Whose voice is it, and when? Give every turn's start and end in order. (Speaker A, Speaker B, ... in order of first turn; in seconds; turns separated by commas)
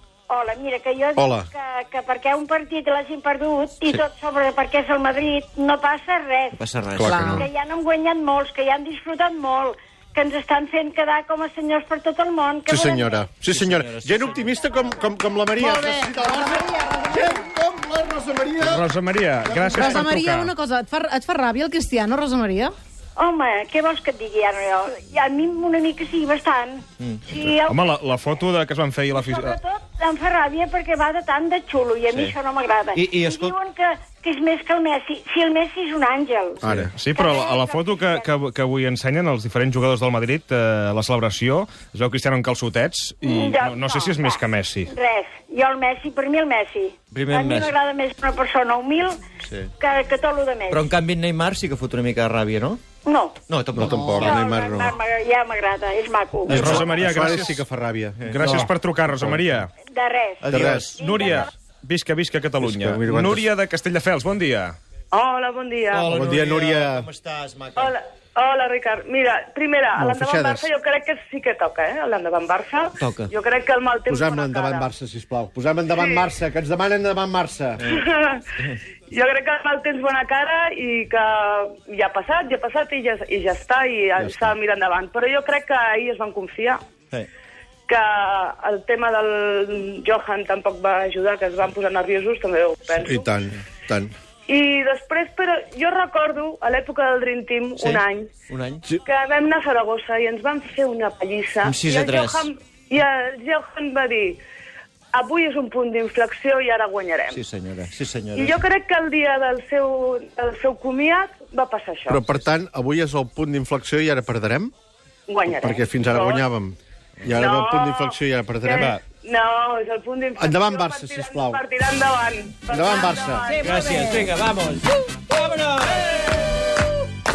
Speaker A: 0.3-6.6, Speaker B: 1.1-1.5, Speaker C: 6.5-7.5, Speaker B: 6.9-7.4, Speaker D: 7.0-7.5, Speaker A: 7.3-13.3, Speaker B: 12.7-20.1, Speaker C: 13.4-14.6, Speaker D: 15.5-17.4, Speaker E: 18.6-20.5, Speaker D: 19.6-22.7, Speaker A: 23.1-27.9, Speaker C: 27.0-27.4, Speaker E: 27.6-29.6, Speaker A: 29.1-36.6, Speaker C: 32.1-32.4, Speaker C: 32.9-33.6, Speaker E: 36.6-44.9, Speaker B: 36.6-36.9, Speaker A: 37.1-38.3, Speaker A: 43.2-49.2, Speaker C: 47.1-47.8, Speaker C: 49.4-49.7, Speaker A: 49.8-50.9, Speaker C: 50.7-52.9, Speaker A: 53.0-53.4, Speaker C: 53.4-54.4, Speaker B: 53.7-55.0, Speaker D: 53.9-54.3, Speaker A: 54.2-56.6, Speaker C: 56.5-57.0, Speaker B: 56.5-59.6, Speaker E: 56.5-57.6, Speaker C: 58.2-58.7, Speaker E: 58.3-59.7, Speaker A: 59.8-61.5, Speaker C: 60.4-61.4, Speaker B: 60.5-60.9, Speaker E: 61.0-64.8, Speaker B: 62.6-63.5, Speaker F: 65.1-66.1, Speaker C: 65.9-67.9, Speaker B: 66.1-67.1, Speaker F: 67.8-74.9, Speaker B: 70.0-70.7, Speaker C: 73.0-73.3, Speaker B: 74.1-77.8, Speaker F: 76.0-76.2, Speaker F: 77.9-78.4, Speaker F: 79.1-86.8, Speaker B: 84.2-84.5, Speaker F: 87.9-93.3, Speaker B: 93.0-94.1, Speaker F: 94.5-98.3, Speaker C: 97.8-98.9, Speaker F: 99.0-104.4, Speaker C: 101.6-102.5, Speaker F: 105.1-107.4, Speaker C: 107.3-108.6, Speaker F: 108.3-112.2, Speaker B: 112.1-114.7, Speaker F: 115.3-116.5, Speaker B: 115.5-119.0, Speaker F: 117.3-124.0, Speaker B: 120.4-121.6, Speaker B: 122.7-123.5, Speaker D: 123.5-124.3, Speaker C: 123.6-126.8